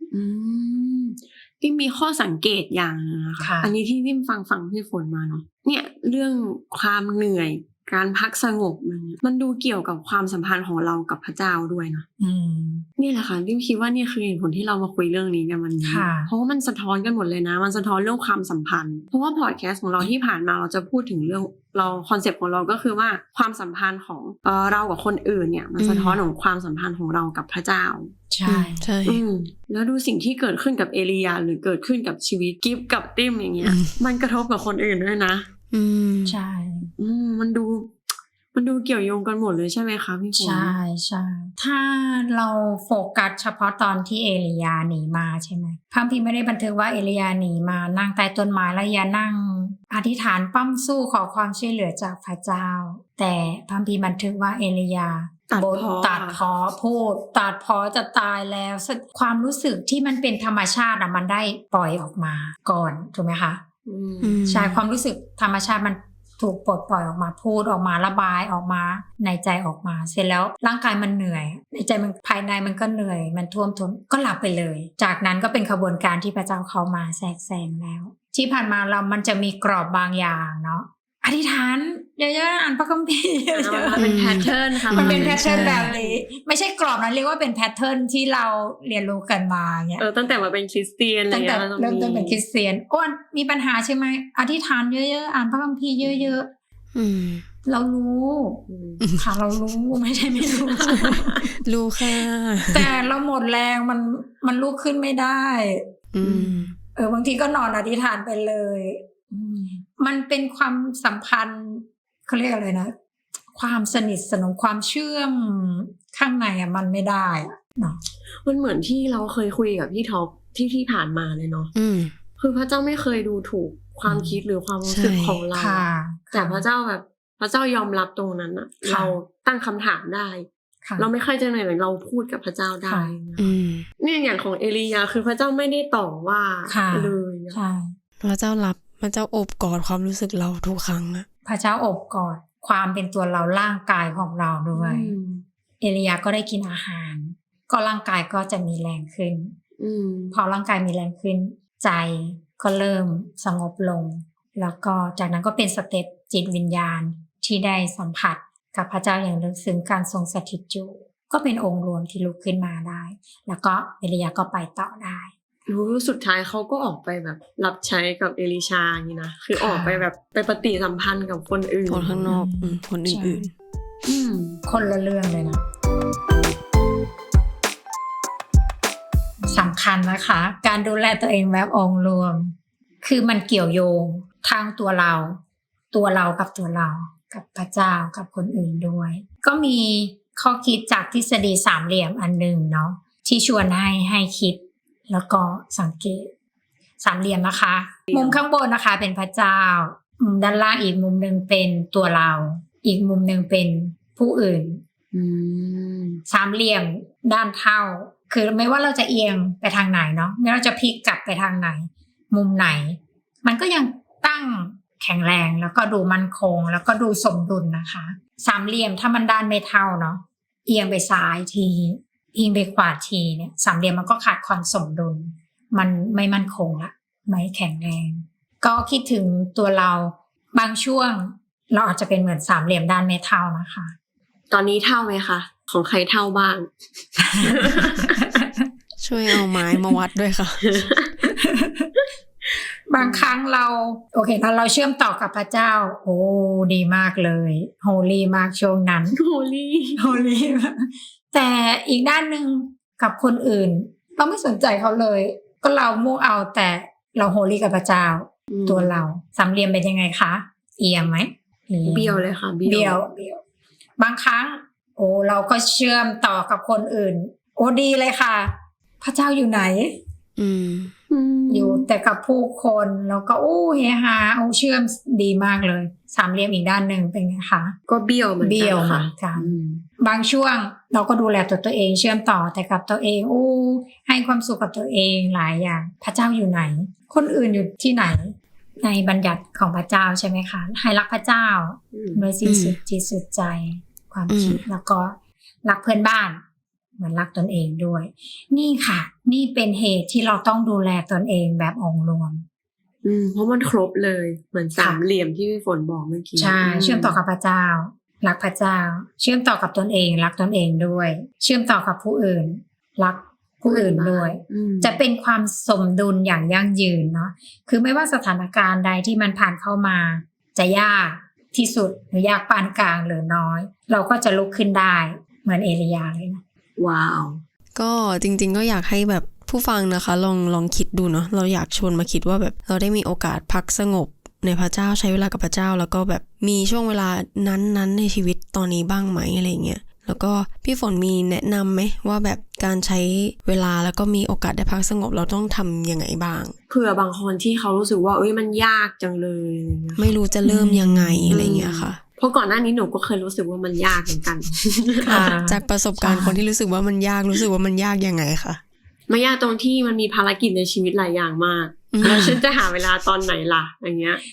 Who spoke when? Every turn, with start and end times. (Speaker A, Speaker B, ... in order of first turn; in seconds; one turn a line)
Speaker A: 0.1-12.1
Speaker B: 3.4-3.7
Speaker B: 12.2-12.9
Speaker A: 13.0-28.1
Speaker B: 15.8-16.3
Speaker C: 25.8-26.2
Speaker B: 28.3-28.8
Speaker C: 28.4-29.2
Speaker A: 29.1-35.5
Speaker C: 33.6-34.0
Speaker C: 35.7-36.4
Speaker B: 36.2-36.9
Speaker A: 37.0-40.7
Speaker B: 40.4-63.6
Speaker A: 55.5-56.4
Speaker A: 63.9-64.4
Speaker C: 64.2-64.8
Speaker B: 64.5-90.0
Speaker A: 83.5-86.2
Speaker C: 84.0-85.9
Speaker A: 90.0-92.4
Speaker B: 91.3-96.5
Speaker A: 96.0-96.3
Speaker C: 96.9-97.5
Speaker B: 97.7-98.6
Speaker A: 98.7-99.0
Speaker C: 99.0-99.2
Speaker B: 99.2-101.6
Speaker A: 100.8-101.4
Speaker C: 101.6-102.9
Speaker B: 102.7-112.9
Speaker C: 106.1-106.7
Speaker B: 113.5-118.0
Speaker A: 118.4-121.7
Speaker C: 121.7-122.1
Speaker A: 122.4-130.5
Speaker C: 124.8-125.4
Speaker B: 125.5-126.6
Speaker B: 128.8-129.2
Speaker A: 131.0-137.6
Speaker B: 132.9-133.2
Speaker C: 133.4-133.8
Speaker B: 136.7-137.9
Speaker C: 138.2-141.3
Speaker B: 141.4-145.1
Speaker A: 144.7-145.4
Speaker B: 145.8-149.5
Speaker A: 149.8-150.4
Speaker B: 150.3-165.3
Speaker A: 165.7-172.3
Speaker B: 169.6-170.1
Speaker C: 171.9-173.5
Speaker B: 172.3-173.4
Speaker A: 174.0-174.6
Speaker B: 174.6-175.6
Speaker B: 179.5-185.4
Speaker B: 185.9-196.3
Speaker B: 197.0-204.8
Speaker A: 198.1-198.4
Speaker A: 205.1-206.2
Speaker B: 206.3-233.9
Speaker A: 234.5-238.2
Speaker B: 237.3-238.6
Speaker C: 239.0-240.9
Speaker A: 240.7-241.3
Speaker B: 241.3-241.9
Speaker B: 242.9-249.2
Speaker A: 243.0-243.3
Speaker A: 249.1-250.2
Speaker B: 250.0-263.4
Speaker A: 258.5-259.0
Speaker A: 261.9-263.0
Speaker B: 264.0-270.0
Speaker C: 270.4-270.9
Speaker A: 271.1-271.9
Speaker B: 271.5-277.8
Speaker A: 277.9-279.8
Speaker B: 278.4-296.4
Speaker A: 291.9-292.2
Speaker C: 292.4-292.8
Speaker C: 294.3-294.6
Speaker B: 297.0-302.4
Speaker A: 303.0-307.2
Speaker B: 304.8-305.0
Speaker B: 306.4-326.4
Speaker A: 313.6-315.0
Speaker A: 326.8-327.4
Speaker C: 327.7-346.5
Speaker A: 346.7-350.1
Speaker C: 350.0-352.0
Speaker B: 350.4-351.4
Speaker A: 351.3-355.4
Speaker B: 355.0-356.4
Speaker C: 355.1-358.6
Speaker A: 359.1-364.2
Speaker C: 361.9-362.4